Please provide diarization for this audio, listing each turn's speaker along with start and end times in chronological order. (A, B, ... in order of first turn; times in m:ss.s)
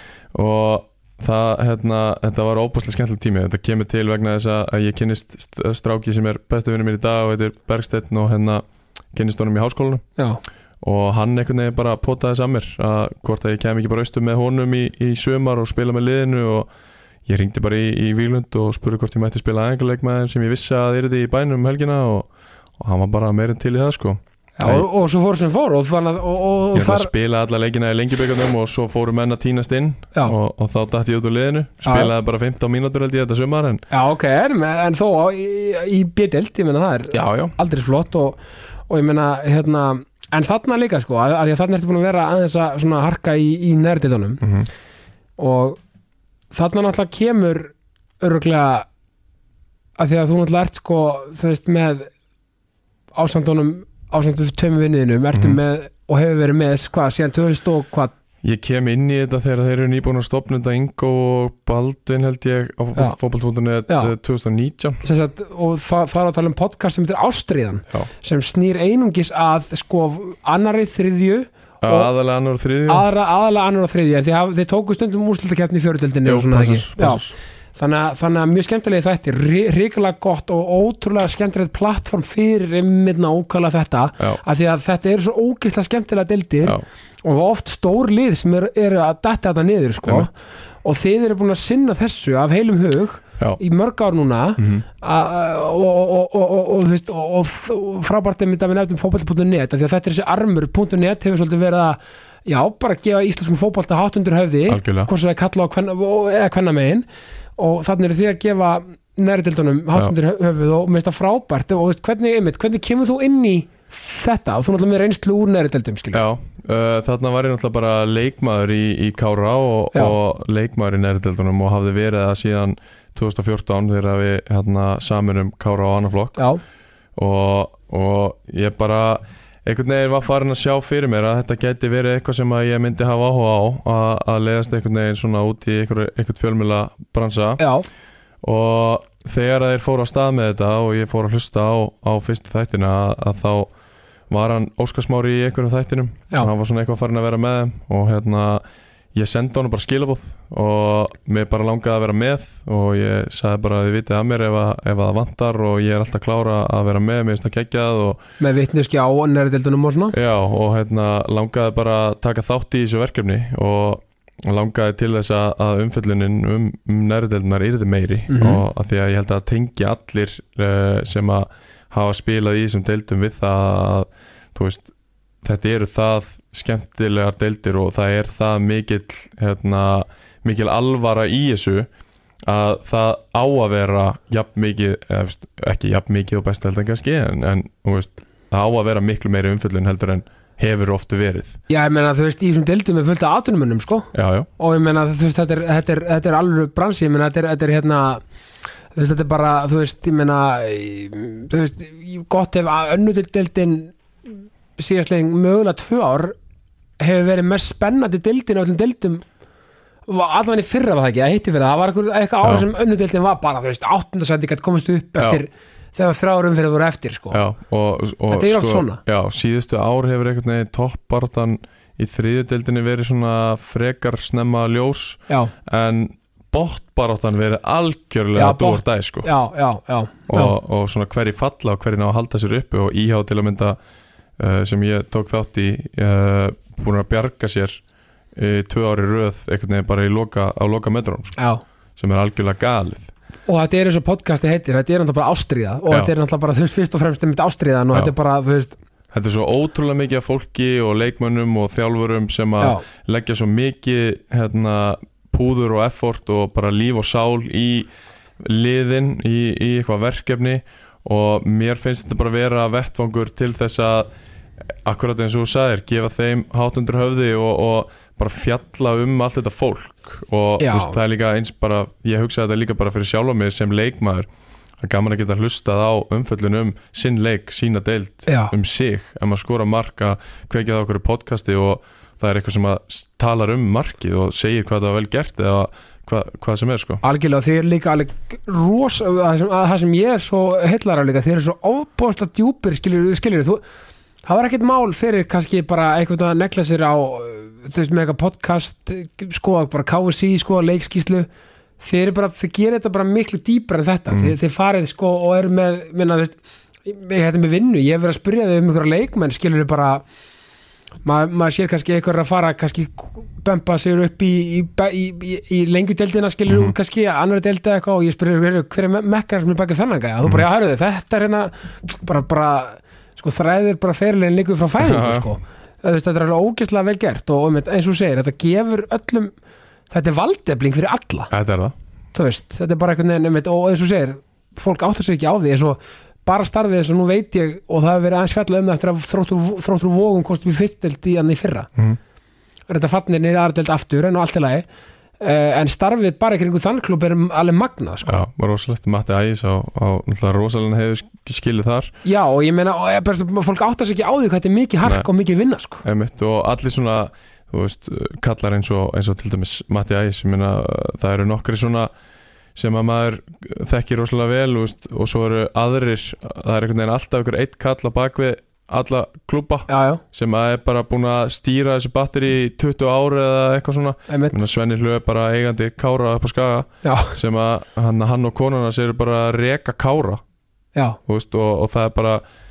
0:00.3-0:10.0 A
0:10.8-0:16.7 A
0:17.3-0:24.9 A
0:24.6-0:27.1 B
0:26.7-0:33.8 A
0:31.8-0:32.1 B
0:33.9-0:44.4 B
0:37.1-0:37.6 A
0:44.4-0:44.7 A
0:45.4-0:45.8 B
0:46.5-0:48.9 B
0:50.0-0:52.1 B
0:53.2-0:58.1 B
0:55.3-0:55.6 A
0:58.4-1:05.0 A
1:03.9-1:04.1 B
1:05.0-1:12.1 B
1:11.8-1:13.1 A
1:12.9-1:47.0 B
1:16.2-1:17.3 A
1:30.0-1:30.4 A
1:34.6-1:34.8 A
1:44.7-1:45.1 A
1:47.6-1:56.2 B
1:56.1-2:06.4 A
2:07.2-2:17.6 A
2:17.6-2:17.9 B
2:18.4-2:23.7 A
2:24.3-2:28.6 A
2:29.1-2:38.2 A
2:38.4-2:40.2 B
2:40.1-2:54.9 A
2:48.3-2:48.6 B
2:55.4-3:01.9 A
3:02.5-3:11.6 A
3:11.7-3:18.2 B
3:14.1-3:14.5 A
3:19.0-3:23.9 B
3:24.8-3:26.4 B
3:27.0-3:29.2 B
3:30.1-3:37.4 B
3:37.3-3:49.3 A
3:38.3-3:39.0 B
3:48.4-3:50.6 B
3:50.3-3:53.8 A
3:54.4-3:57.8 A
3:58.4-4:01.4 A
4:01.4-4:01.6 B
4:02.0-4:03.1 A
4:03.5-4:08.8 B
4:09.1-4:24.1 A
4:24.7-4:34.3 A
4:30.6-4:31.0 B
4:34.8-4:47.0 A
4:38.3-4:38.5 B
4:47.0-4:53.6 B
4:54.2-5:01.3 B
5:01.8-5:10.0 B
5:04.1-5:04.4 A
5:11.0-5:29.3 B
5:16.5-5:16.8 A
5:24.8-5:25.3 A
5:29.9-5:31.3 B
5:31.3-5:31.7 A
5:32.1-5:41.7 B
5:42.7-5:44.6 B
5:45.2-5:48.2 B
5:48.0-5:51.9 A
5:52.0-5:55.8 B
5:55.8-6:01.9 A
6:02.6-6:20.2 A
6:09.7-6:10.0 B
6:14.1-6:14.4 B
6:16.8-6:17.2 B
6:21.1-6:22.2 A